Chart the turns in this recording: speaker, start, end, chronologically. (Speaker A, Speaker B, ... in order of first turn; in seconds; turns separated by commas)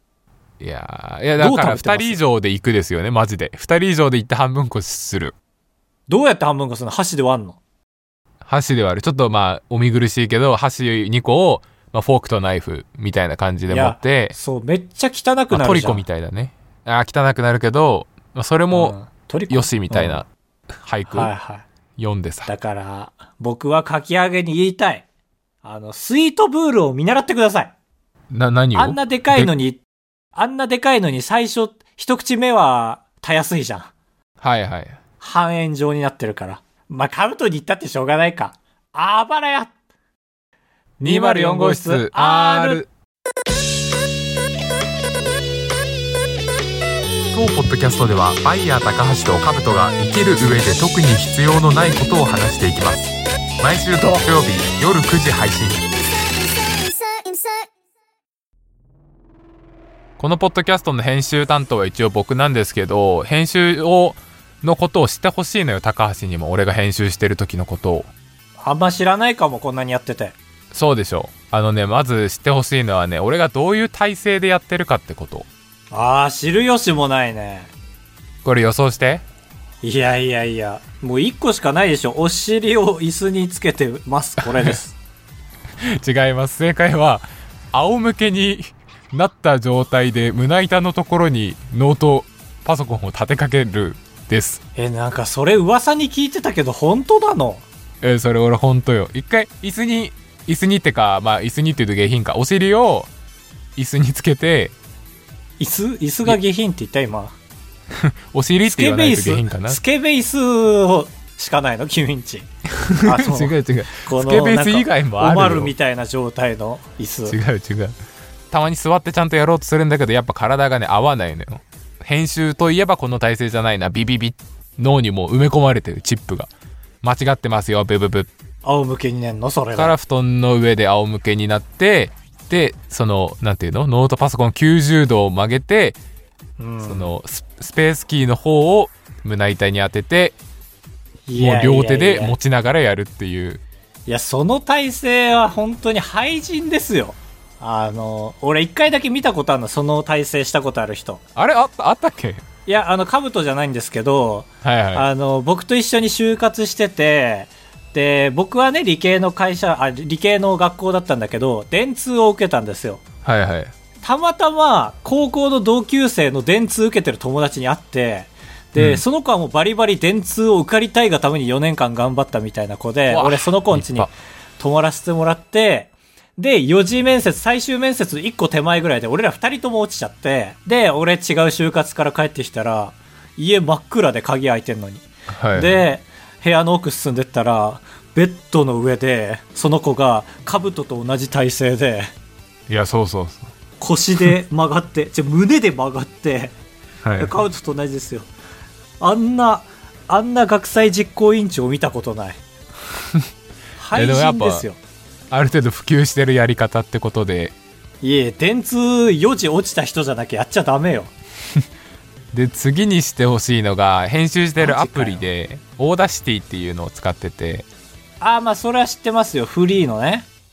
Speaker A: 0.6-5.3, Speaker B: 1.4-2.2, Speaker B: 6.1-7.6, Speaker A: 8.4-14.3, Speaker B: 13.7-16.0, Speaker A: 15.5-18.9, Speaker B: 18.7-20.2, Speaker A: 19.5-20.2, Speaker A: 20.8-21.3, Speaker B: 21.1-21.6, Speaker A: 22.0-22.5, Speaker B: 22.4-25.0, Speaker B: 25.6-27.7, Speaker A: 28.3-29.5, Speaker B: 28.7-29.8, Speaker B: 30.3-33.9, Speaker A: 34.4-35.0, Speaker B: 35.2-39.7, Speaker B: 41.0-42.8, Speaker A: 41.0-42.9, Speaker A: 47.3-55.9, Speaker A: 60.2-68.1, Speaker B: 68.6-70.4, Speaker A: 70.7-75.5, Speaker B: 75.9-77.7, Speaker A: 78.4-79.2, Speaker B: 79.8-85.0, Speaker A: 85.9-94.6, Speaker B: 94.8-97.7, Speaker A: 98.0-103.1, Speaker A: 103.8-104.7, Speaker B: 105.6-107.3, Speaker A: 107.9-109.8, Speaker B: 108.6-112.5, Speaker A: 112.8-115.7, Speaker B: 113.0-117.4, Speaker A: 117.3-117.9, Speaker A: 118.5-126.5, Speaker A: 127.0-128.3, Speaker B: 128.6-129.9, Speaker A: 129.8-136.0, Speaker B: 136.6-137.1, Speaker A: 136.8-140.4, Speaker B: 141.3-142.3, Speaker A: 141.4-143.6, Speaker B: 144.1-151.2, Speaker A: 151.3-152.4, Speaker B: 152.7-163.0, Speaker A: 154.6-155.1, Speaker A: 163.2-163.7, Speaker B: 164.0-192.1, Speaker A: 168.8-169.0, Speaker A: 173.1-174.1, Speaker A: 185.3-185.8, Speaker A: 192.7-193.5, Speaker B: 193.8-196.5, Speaker A: 197.0-197.3, Speaker B: 197.2-198.3, Speaker B: 199.0-202.4, Speaker B: 203.8-204.8, Speaker A: 203.9-204.6, Speaker A: 205.3-207.5, Speaker B: 208.0-211.1, Speaker A: 212.3-217.7, Speaker B: 214.6-215.2, Speaker B: 218.2-220.3